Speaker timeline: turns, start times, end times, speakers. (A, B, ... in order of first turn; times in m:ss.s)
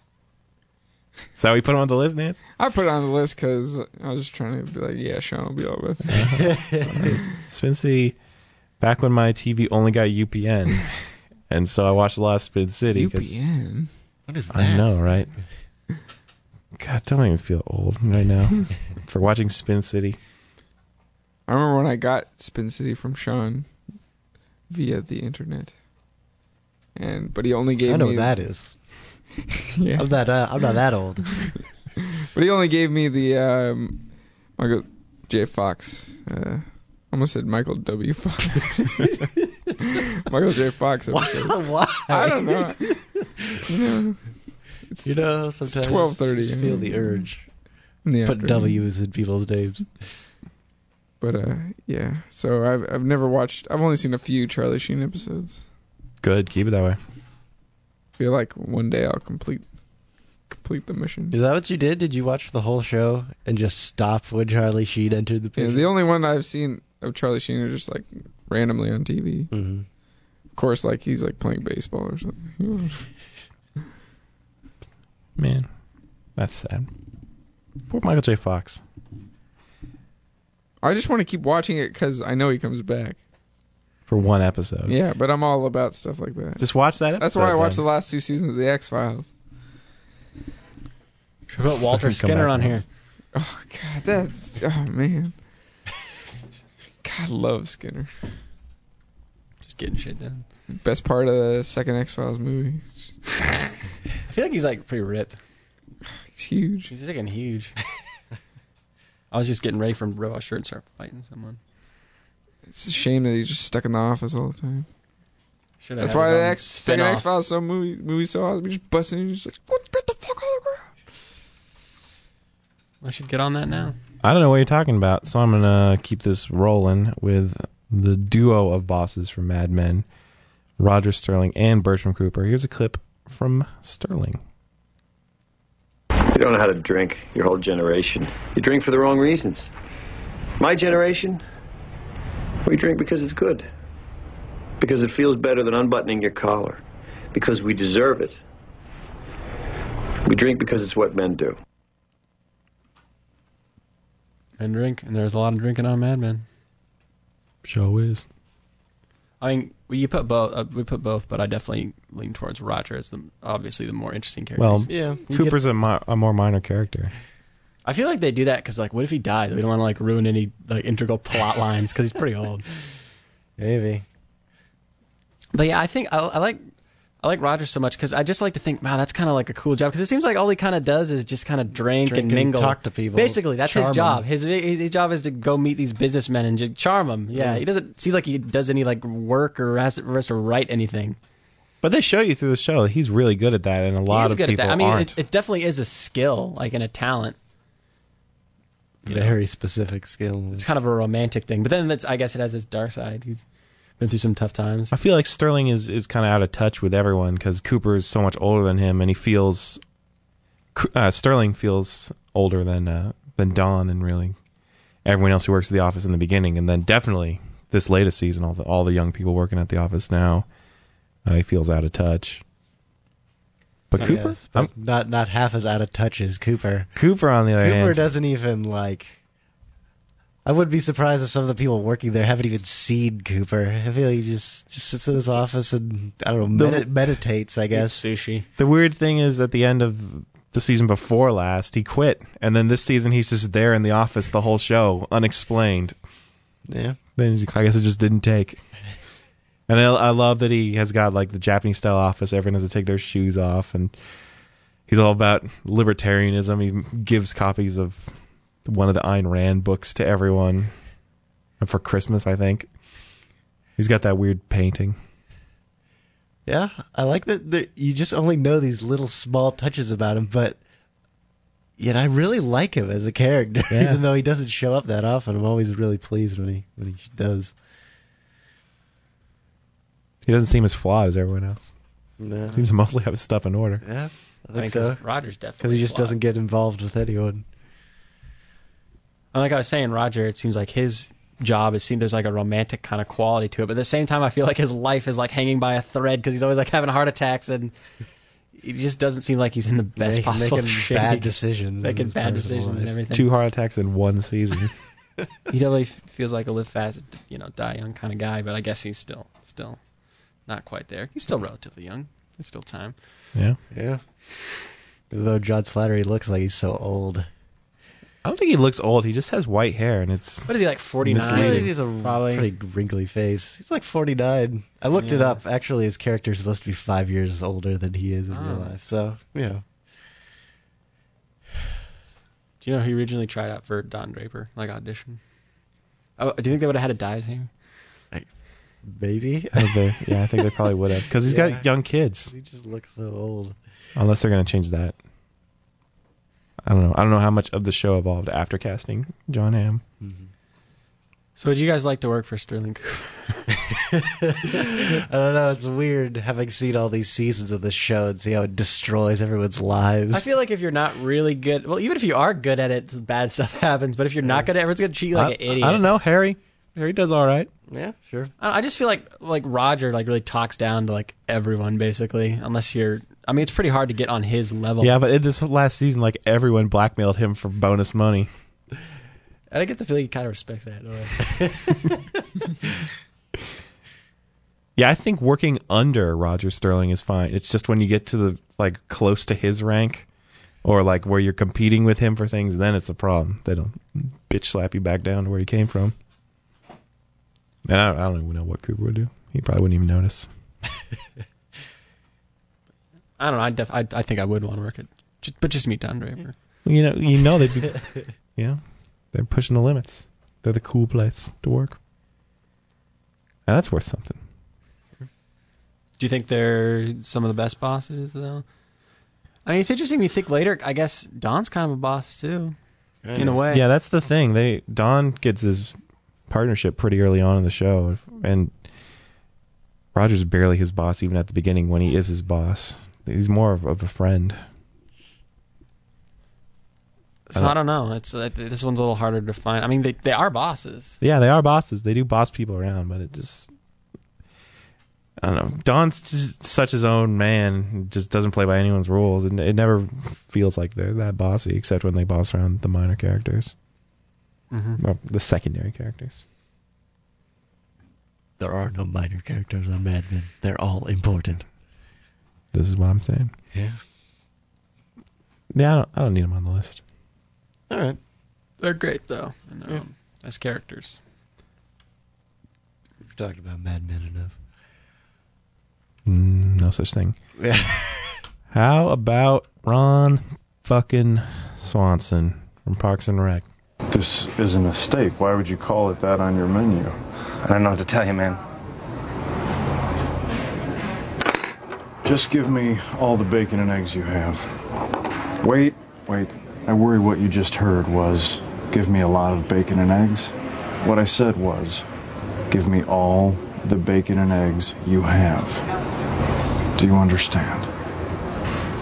0:01.4-0:02.4 A
0:02.6-0:07.3 B
0:06.1-0:06.5 A
0:06.3-0:07.1 C
0:07.0-0:08.2 A
0:08.8-0:10.9 A
0:11.5-0:13.3 A
0:12.9-0:13.9 B
0:14.3-0:15.1 C
0:14.5-0:15.3 A
0:16.8-0:20.2 A
0:21.5-0:23.7 B
0:24.7-0:25.7 B
0:27.0-0:28.3 B
0:27.8-0:28.7 C
0:29.6-0:30.2 B
0:30.0-0:31.4 C
0:32.3-0:34.0 B
0:34.6-0:39.1 B
0:39.8-0:43.0 B
0:41.1-0:43.6 C
0:43.7-0:44.2 B
0:45.0-0:47.4 C
0:45.7-0:47.3 B
0:48.0-0:48.8 B
0:48.2-0:49.9 C
0:51.2-0:55.6 B
0:56.2-0:57.0 A
0:58.2-0:59.6 B
1:00.5-1:01.3 B
1:01.3-1:05.9 C
1:05.6-1:09.5 B
1:09.5-1:09.8 C
1:10.6-1:13.1 B
1:15.4-1:15.7 A
1:16.4-1:16.9 A
1:17.9-1:18.8 A
1:20.8-1:23.2 B
1:24.1-1:25.0 A
1:24.9-1:29.3 B
1:26.6-1:27.8 A
1:31.5-1:32.8 D
1:31.6-1:32.8 A
1:33.3-1:35.3 B
1:37.0-1:38.1 B
1:39.6-1:40.5 D
1:40.8-1:42.8 B
1:44.3-1:45.4 D
1:46.3-1:46.9 B
1:46.9-1:47.8 D
1:49.3-1:51.6 D
1:52.7-1:54.9 B
1:55.8-1:57.3 D
1:56.0-2:00.9 B
2:03.0-2:04.0 D
2:04.2-2:10.1 A
2:10.8-2:14.4 A
2:16.3-2:19.7 E
2:20.6-2:21.4 E
2:22.6-2:23.7 E
2:24.8-2:26.8 E
2:27.3-2:28.4 E
2:30.2-2:31.6 E
2:34.6-2:36.4 D
2:37.6-2:38.3 A
2:39.4-2:45.6 D
2:44.6-2:47.1 A
2:44.9-2:45.2 C
2:47.8-2:52.6 D
2:53.6-2:54.0 C
2:55.5-2:56.7 D
2:57.2-3:11.2 D
3:01.9-3:04.3 C
3:07.3-3:07.6 C
3:11.8-3:15.2 A
3:14.1-3:17.4 D
3:19.0-3:20.7 C
3:19.1-3:19.4 D
3:20.5-3:23.4 D
3:24.0-3:24.9 D
3:24.9-3:29.8 A
3:30.8-3:34.4 A
3:35.0-3:40.5 A
3:41.3-3:42.4 A
3:43.9-3:44.7 A
3:44.0-3:46.9 C
3:47.0-3:48.0 A
3:47.6-3:49.1 C
3:50.4-3:58.0 C
3:56.5-3:56.9 A
3:57.7-3:58.5 D
3:58.6-4:06.0 A
4:06.7-4:07.0 C
4:07.2-4:08.6 A
4:09.7-4:13.9 A
4:14.9-4:18.1 A
4:18.6-4:20.7 A
4:21.6-4:22.7 A
4:23.8-4:25.0 A
4:26.5-4:30.6 C
4:31.8-4:37.5 C
4:33.7-4:34.0 A
4:40.2-4:41.7 A
4:42.2-4:42.6 C
4:42.5-4:43.8 A
4:43.8-4:45.0 C
4:44.6-4:46.2 D
4:45.6-4:47.4 C
4:49.3-4:57.7 D
4:58.6-5:03.3 D
5:00.0-5:03.0 C
5:03.1-5:04.7 A
5:05.5-5:09.8 D
5:10.5-5:13.0 D
5:13.7-5:14.0 C
5:15.1-5:17.3 C
5:18.2-5:20.5 A
5:20.5-5:22.5 D
5:21.0-5:29.6 C
5:21.2-5:21.7 A
5:25.0-5:25.4 D
5:28.3-5:28.7 D
5:32.6-5:35.2 D
5:36.2-5:37.5 D
5:38.8-5:39.8 C
5:39.5-5:42.3 A
5:41.2-5:41.7 C
5:42.3-5:43.6 C
5:44.0-5:45.0 A
5:46.7-5:49.8 A
5:50.0-5:50.3 C
5:51.4-5:53.5 D
5:53.7-6:00.2 C
6:00.1-6:05.9 D
6:05.1-6:07.5 A
6:07.7-6:08.3 C
6:08.4-6:15.0 D
6:14.8-6:18.3 A
6:19.5-6:21.5 D
6:24.8-6:30.1 A
6:30.6-6:36.0 A
6:37.7-6:40.3 A
6:43.2-6:46.3 D
6:46.6-6:47.8 A
6:48.4-6:48.6 A
6:49.1-6:51.8 A
6:53.5-6:54.2 A
6:56.0-6:58.4 D
6:59.5-7:02.6 D
7:03.0-7:03.5 C
7:03.2-7:03.6 D
7:03.5-7:05.8 A
7:06.3-7:08.5 A
7:09.9-7:14.4 A
7:17.3-7:21.0 D
7:21.0-7:23.5 A
7:25.2-7:33.5 A
7:34.5-7:34.8 D
7:34.8-7:36.2 A
7:38.4-7:41.4 C
7:42.5-7:43.3 A
7:43.5-7:43.8 C
7:45.5-7:46.8 A
7:47.7-7:48.0 C
7:48.6-7:51.0 D
7:53.1-7:54.4 C
7:56.1-7:57.2 A
7:57.4-7:58.2 C
7:58.5-8:03.4 A
8:03.9-8:08.4 F
8:12.0-8:14.6 F
8:15.4-8:21.9 F
8:22.5-8:25.7 F
8:26.8-8:27.7 F